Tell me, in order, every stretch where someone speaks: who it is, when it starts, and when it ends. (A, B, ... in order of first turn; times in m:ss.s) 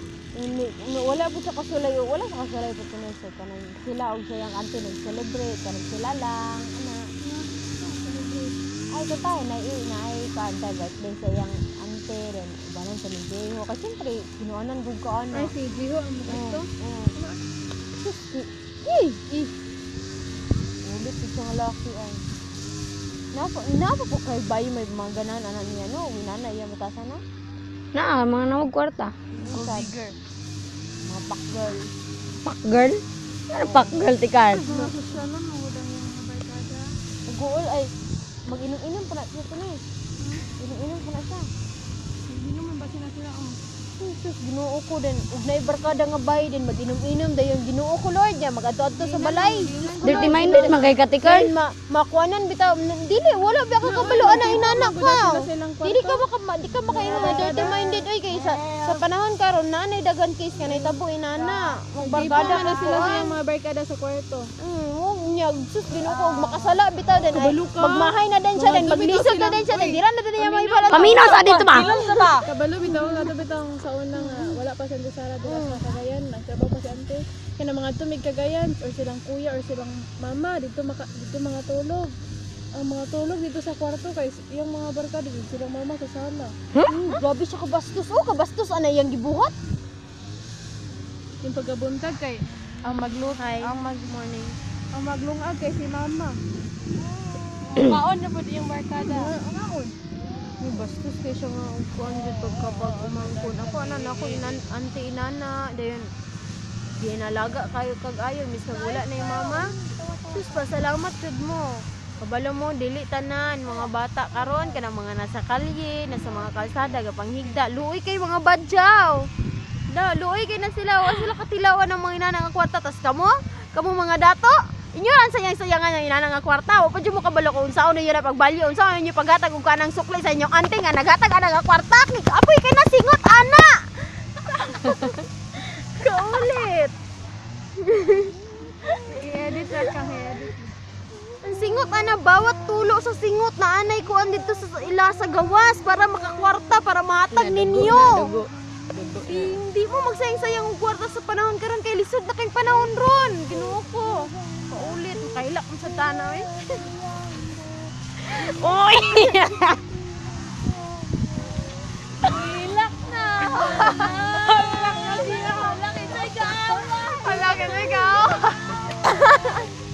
0:00.3-0:07.0 A
0:07.2-0:08.6 B
0:08.9-0:15.5 A
0:15.3-0:17.4 B
0:16.3-0:17.1 A
0:18.1-0:19.5 A
0:20.8-0:22.2 A
0:23.3-0:27.2 A
0:27.9-0:29.1 C
0:29.4-0:30.0 A
0:29.4-0:30.1 B
0:31.0-0:31.9 A
0:32.4-0:34.6 C
0:33.6-0:34.0 A
0:34.6-0:36.9 B
0:34.7-0:35.0 A
0:37.3-0:37.9 A
0:38.4-0:39.8 A
0:40.2-0:40.4 B
0:40.6-0:41.5 A
0:42.3-0:43.6 B
0:44.0-1:03.3 A
0:49.0-0:51.0 B
0:50.0-0:51.5 C
0:53.8-0:56.2 B
0:56.8-0:59.0 B
1:00.7-1:04.5 B
1:04.6-1:13.3 A
1:06.1-1:22.1 B
1:10.9-1:12.0 C
1:14.1-1:14.6 A
1:15.4-1:15.8 A
1:22.7-1:26.5 B
1:26.7-1:27.1 C
1:26.8-1:29.5 A
1:31.4-1:33.9 B
1:33.3-1:34.6 A
1:34.9-1:36.4 B
1:37.7-1:39.9 B
1:39.0-1:39.3 A
1:40.6-1:46.1 A
1:42.2-1:44.6 B
1:46.9-1:49.6 A
1:48.7-1:50.7 B
1:50.3-1:59.2 A
1:59.9-2:16.9 A
2:17.8-2:18.3 A
2:19.0-2:20.7 B
2:21.4-2:28.3 A
2:27.3-2:29.5 C
2:29.2-2:36.8 A
2:38.4-2:39.4 A
2:38.6-2:39.7 C
2:42.2-2:48.5 B
2:43.5-2:48.5 A
2:49.0-2:49.5 A